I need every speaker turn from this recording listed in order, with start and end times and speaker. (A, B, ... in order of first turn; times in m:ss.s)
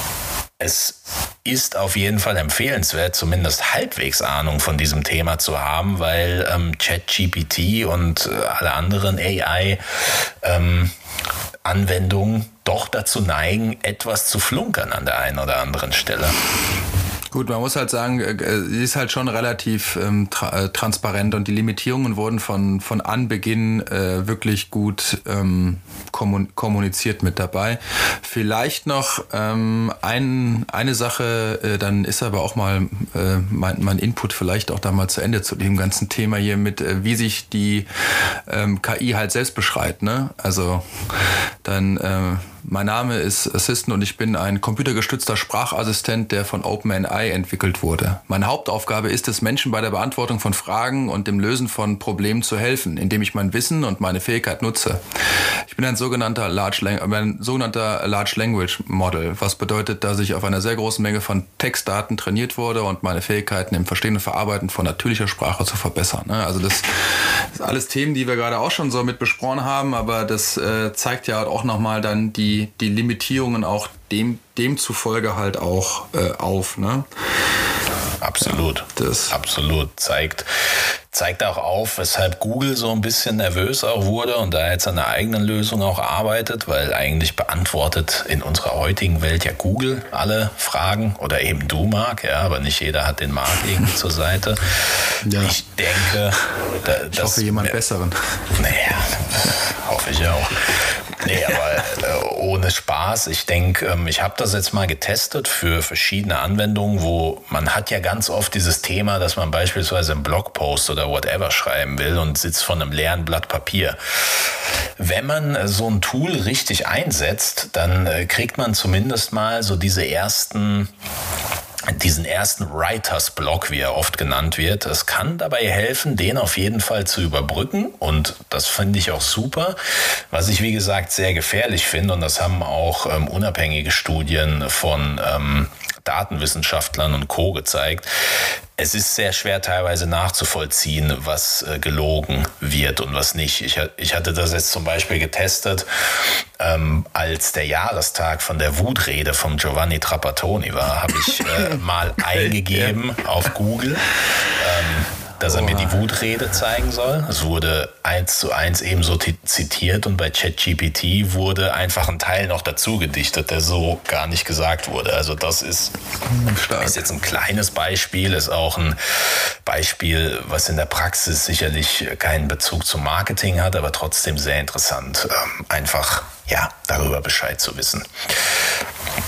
0:00.6-0:10.9 A
0:11.6-0:16.4 A
0:17.3-0:37.9 B
0:38.5-0:40.8 B
0:41.6-0:55.0 B
0:55.7-1:17.1 B
1:18.2-1:20.5 A
1:18.9-1:19.4 B
1:21.1-1:34.6 A
1:35.2-1:35.6 B
1:35.4-1:37.7 A
1:37.1-1:38.1 B
1:38.6-2:00.9 A
2:01.9-2:09.8 A
2:10.3-2:18.1 A
2:18.8-2:45.9 A
2:31.3-2:31.7 B
2:32.3-2:32.9 B
2:35.4-2:36.0 B
2:46.3-2:47.0 B
2:46.8-2:58.6 A